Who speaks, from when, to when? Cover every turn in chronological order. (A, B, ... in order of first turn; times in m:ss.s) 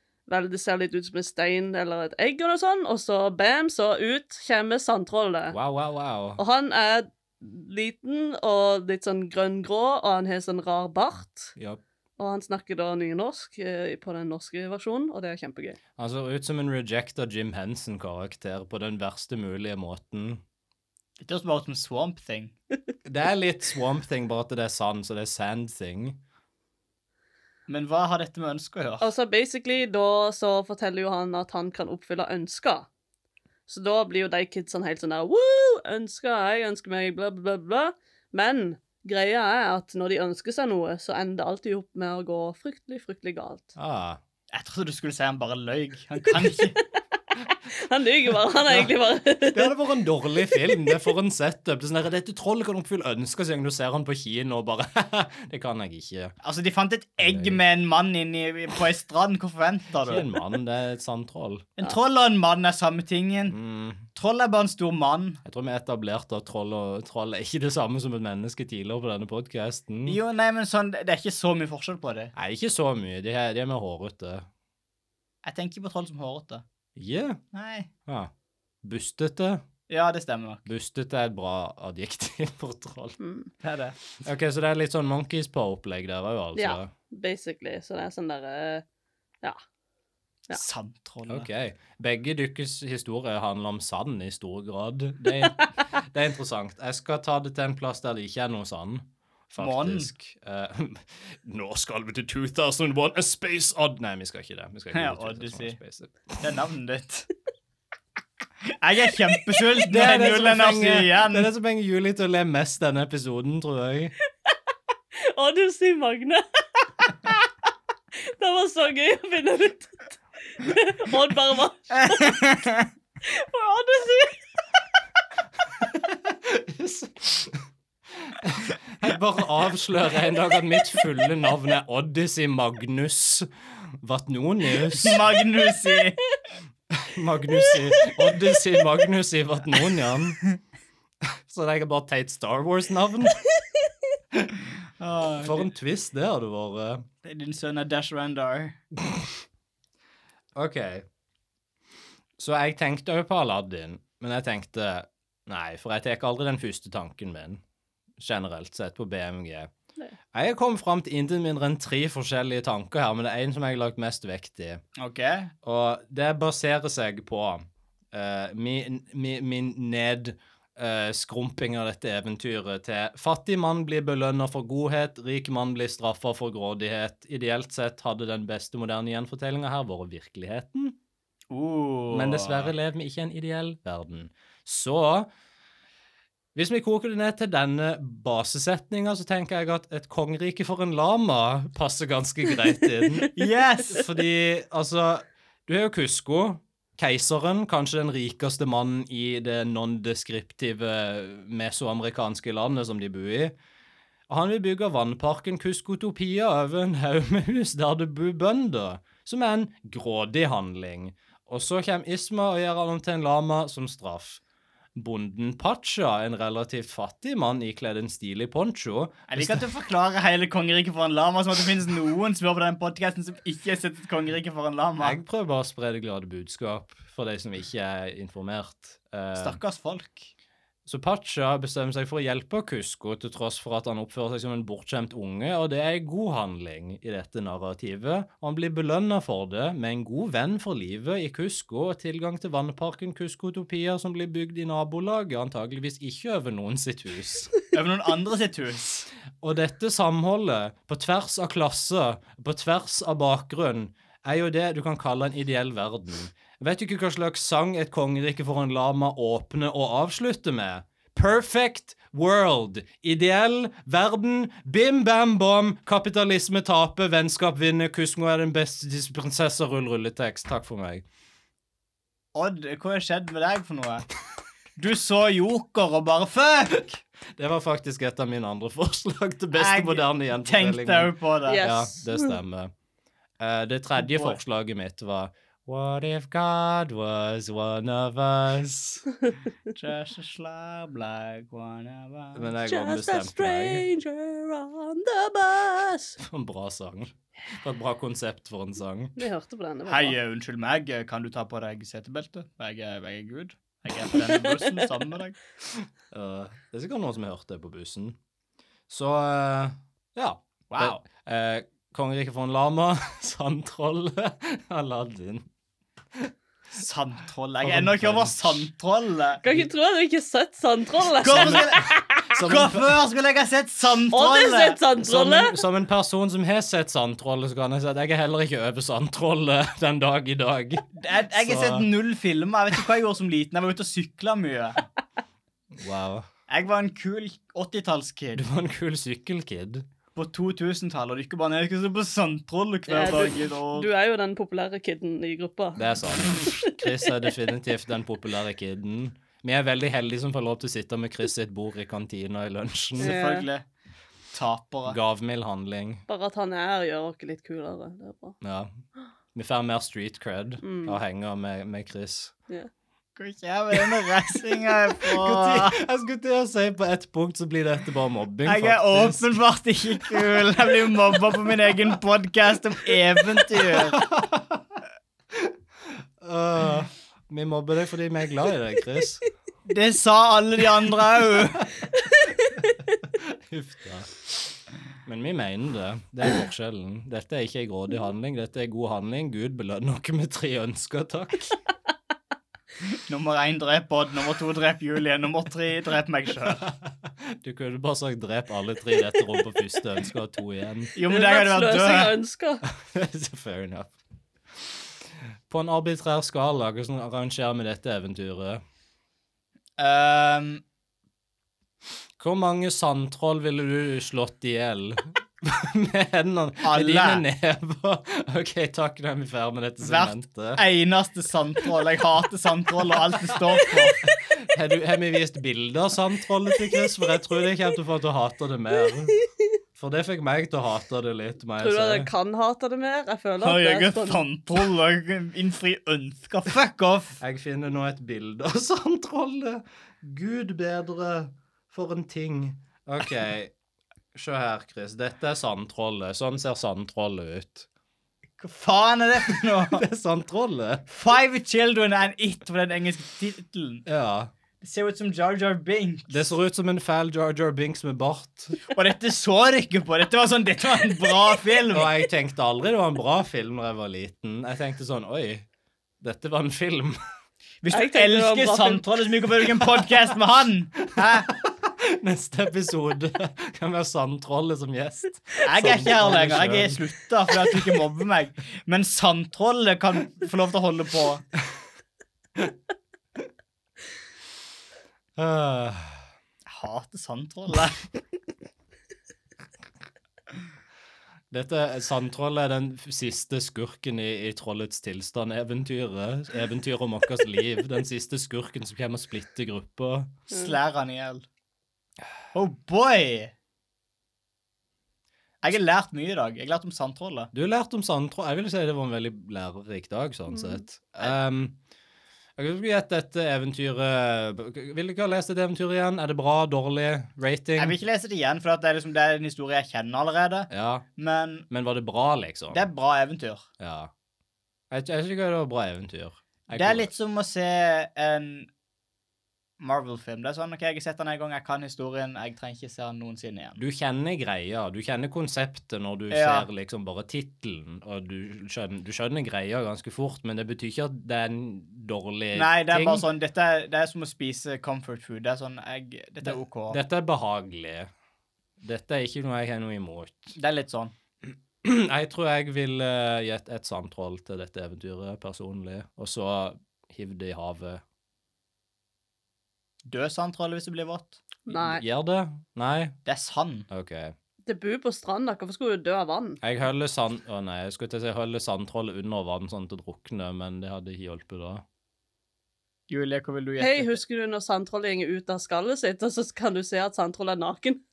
0:00.3-0:05.6 A
0:05.5-0:06.4 B
0:06.4-0:11.5 A
0:11.6-0:11.8 B
0:12.2-0:15.8 A
0:16.0-0:20.4 B
0:21.2-0:22.5 C
0:23.0-0:26.2 B
0:27.7-0:29.1 C
0:29.0-0:32.9 A
0:33.7-0:43.7 A
0:43.8-0:44.2 B
0:44.5-0:46.8 C
0:47.7-0:49.8 A
0:49.5-0:56.3 B
0:50.6-0:51.0 A
0:56.4-1:00.2 C
0:57.2-0:57.6 B
1:00.0-1:01.7 B
1:01.8-1:03.6 C
1:03.5-1:04.0 B
1:04.1-1:05.4 C
1:05.4-1:10.2 B
1:10.0-1:12.3 C
1:12.3-1:14.5 B
1:15.4-1:16.6 C
1:17.0-1:17.4 B
1:17.5-1:17.9 C
1:18.0-1:18.3 B
1:18.8-1:19.6 B
1:19.9-1:20.6 C
1:20.6-1:23.2 B
1:23.2-1:23.5 A
1:23.6-1:24.0 C
1:24.2-1:26.9 B
1:26.6-1:28.8 A
1:30.5-1:31.5 C
1:31.3-1:46.4 B
1:39.6-1:40.1 C
1:44.9-1:45.8 C
1:46.4-1:47.3 C
1:48.7-1:51.5 C
1:49.8-1:54.1 B
1:55.2-1:57.4 A
1:58.3-2:02.7 A
2:01.9-2:02.9 C
2:03.2-2:04.4 A
2:05.8-2:15.2 B
2:15.0-2:16.2 C
2:16.9-2:20.4 B
2:17.7-2:18.3 A
2:21.5-2:23.4 B
2:25.0-2:25.7 C
2:25.4-2:27.0 B
2:27.2-2:28.8 C
2:30.5-2:31.0 B
2:32.4-2:37.6 B
2:38.2-2:39.7 B
2:40.3-2:44.8 B
2:45.0-2:45.5 C
2:45.6-3:01.0 B
3:01.5-3:02.7 C
3:02.1-3:05.3 B
3:06.5-3:13.3 B
3:13.3-3:14.1 C
3:13.8-3:23.5 B
3:24.3-3:34.4 B
3:34.9-3:39.6 B
3:39.3-3:45.2 C
3:45.0-3:49.6 B
3:49.3-3:50.3 C
3:50.8-4:07.5 B
4:07.7-4:09.0 C
4:09.4-4:31.0 B
4:32.3-4:34.1 C
4:34.8-4:37.0 C
4:37.4-4:42.7 B
4:39.5-4:41.6 C
4:41.5-4:42.4 A
4:43.4-4:49.0 B
4:44.0-4:44.4 C
4:49.7-4:52.5 C
4:52.3-4:53.8 B
4:52.6-4:56.2 A
4:56.2-4:59.2 B
4:59.2-5:00.2 A
4:59.9-5:05.4 C
5:04.2-5:04.8 A
5:06.1-5:08.2 B
5:08.9-5:15.4 B
5:10.7-5:11.0 C
5:16.7-5:19.4 C
5:17.6-5:18.6 B
5:19.4-5:22.0 A
5:21.2-5:24.8 C
5:21.3-5:23.0 B
5:24.1-5:25.6 A
5:25.0-5:31.9 B
5:30.9-5:34.8 C
5:35.7-5:36.3 B
5:36.5-5:38.4 C
5:38.4-5:39.8 B
5:40.1-5:43.9 C
5:42.9-5:46.8 A
5:45.8-5:53.1 B
5:53.0-5:53.6 C
5:53.0-5:53.5 A
5:54.3-5:55.0 C
5:54.9-5:56.0 B
5:56.1-5:58.4 A
5:58.4-5:58.8 B
5:59.3-6:02.3 B
6:00.6-6:01.0 A
6:03.2-6:05.8 C
6:04.3-6:09.4 B
6:08.4-6:14.0 C
6:10.0-6:10.4 B
6:13.6-6:14.8 B
6:15.3-6:19.2 B
6:19.6-6:21.7 C
6:23.0-6:31.6 B
6:32.8-6:36.6 C
6:36.5-6:40.9 B
6:41.0-6:42.2 C
6:41.0-6:42.6 A
6:42.7-6:43.9 B
6:45.5-6:48.6 B
6:49.8-6:50.6 C
6:52.2-7:00.6 B
6:56.6-6:57.2 C
6:59.8-7:04.0 C
7:03.4-7:09.1 B
7:09.8-7:12.1 B
7:11.6-7:14.2 A
7:13.4-7:17.2 C
7:17.2-7:23.5 B
7:24.1-7:27.7 B
7:28.4-7:29.8 C
7:29.3-7:30.9 B
7:30.9-7:33.8 C
7:33.8-7:34.3 B
7:34.6-7:36.3 C
7:36.1-7:38.6 B
7:38.6-7:41.9 C
7:41.7-7:45.4 B
7:46.0-7:47.0 B
7:47.6-7:51.3 C
7:47.7-7:48.8 A
7:49.6-7:49.9 B
7:51.0-7:56.8 B
7:55.4-8:01.2 C
8:05.2-8:06.0 B
8:06.5-8:07.8 C
8:11.3-8:20.1 B
8:20.3-8:21.2 C
8:22.3-8:23.3 C
8:25.4-8:27.3 C
8:27.3-8:31.6 B
8:32.4-8:37.8 B
8:37.6-8:41.4 C
8:40.5-8:40.8 B
8:41.5-8:42.7 B
8:42.5-8:43.4 C
8:43.6-8:43.9 B
8:44.7-8:46.9 B
8:46.5-8:48.5 C
8:49.6-8:53.6 C
8:53.6-9:03.0 B
8:56.1-8:56.5 C
9:02.3-9:06.8 C
9:06.2-9:07.9 B
9:08.6-9:10.3 B
9:10.3-9:10.9 C
9:11.2-9:17.8 B
9:19.8-9:21.2 C
9:21.5-9:21.8 A
9:21.5-9:23.0 B
9:23.0-9:23.7 C
9:23.7-9:24.1 B
9:24.4-9:26.4 A
9:26.4-9:31.6 B
9:32.9-9:34.0 C
9:33.6-9:37.8 A